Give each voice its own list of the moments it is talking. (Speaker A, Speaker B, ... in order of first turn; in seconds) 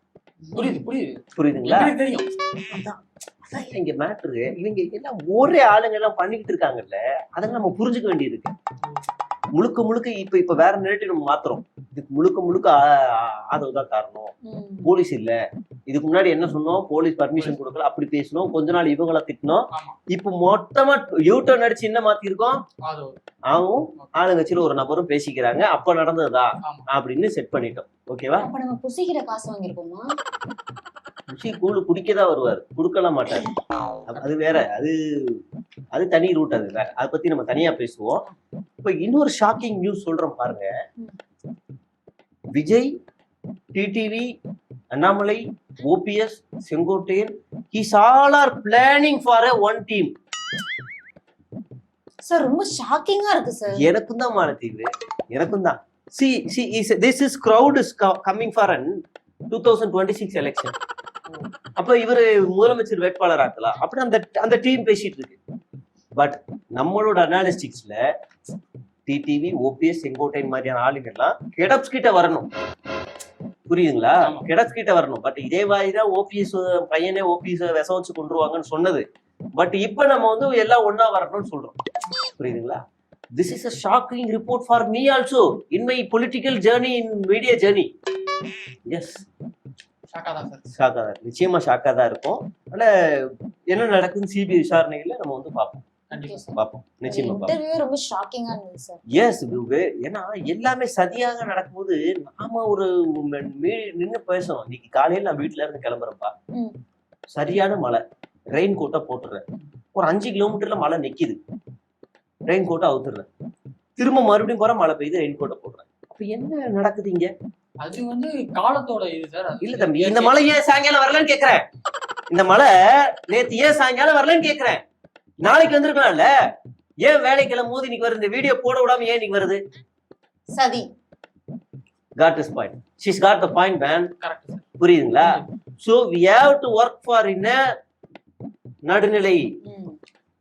Speaker A: 0.5-2.3, 19.7-20.0, 22.8-23.1, 74.2-74.5, 90.2-90.7, 96.1-96.4, 117.8-120.4, 134.2-134.7, 135.2-135.5
Speaker B: 1.4-1.9, 2.7-8.6, 9.6-15.4, 15.9-22.6, 23.5-28.5, 31.3-33.5, 34.1-35.4, 35.9-38.2, 38.8-40.7, 42.5-42.9, 43.8-44.3, 44.9-50.1, 53.8-59.0, 59.5-60.8, 61.8-65.4, 66.2-68.0, 69.1-72.5, 73.7-79.0, 79.6-81.8, 82.4-82.8, 83.4-87.9, 88.9-89.2, 90.8-95.8, 96.5-97.5, 99.1-106.3, 107.3-108.0, 108.5-109.4, 110.0-111.4, 112.5-113.3, 114.0-117.3, 119.6-121.7, 122.3-124.8, 125.4-126.3, 127.0-129.6, 132.2-134.1, 134.8-137.6, 138.9-139.4
Speaker C: 14.4-14.9, 28.4-30.1, 52.3-53.8, 96.2-96.6, 97.1-99.0, 130.5-130.9, 139.6-140.0